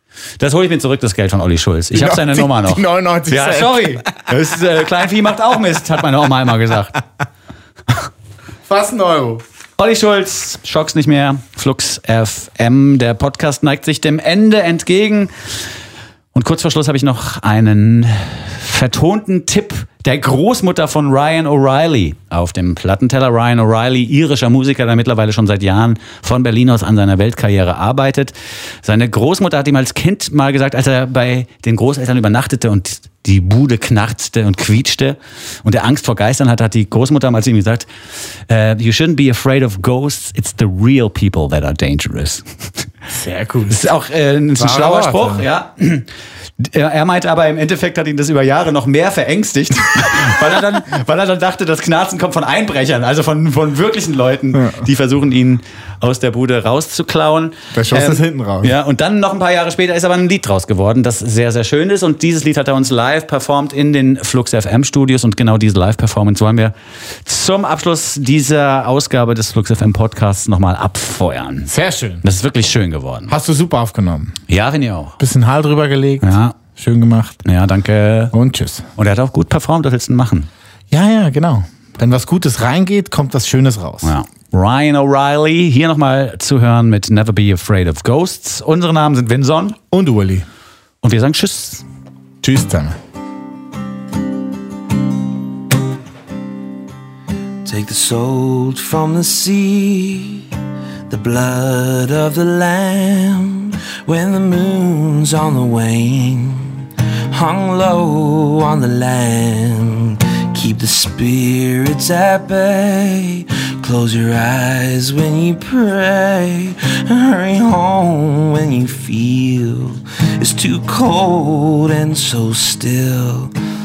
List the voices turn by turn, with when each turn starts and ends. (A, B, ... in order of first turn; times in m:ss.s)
0:00.4-0:07.0 A
0:01.9-0:04.2 B
0:08.7-0:09.4 B
0:09.8-0:15.3 A
0:16.3-0:37.9 A
0:38.5-0:42.9 A
0:43.1-0:43.8 B
0:43.7-0:46.1 A
0:44.6-0:45.4 B
0:46.6-1:06.7 A
0:57.7-0:58.7 B
1:07.2-1:13.3 A
1:11.7-1:12.2 B
1:13.3-1:14.4 B
1:14.5-1:15.2 A
1:15.2-1:17.4 B
1:16.2-1:16.6 A
1:17.4-1:18.3 A
1:18.3-1:18.9 B
1:19.0-1:20.5 A
1:20.9-1:24.1 B
1:24.0-1:29.8 A
1:29.9-1:30.4 B
1:31.0-1:31.8 A
1:32.4-1:33.0 B
1:37.6-1:40.4 C
1:41.1-2:03.5 C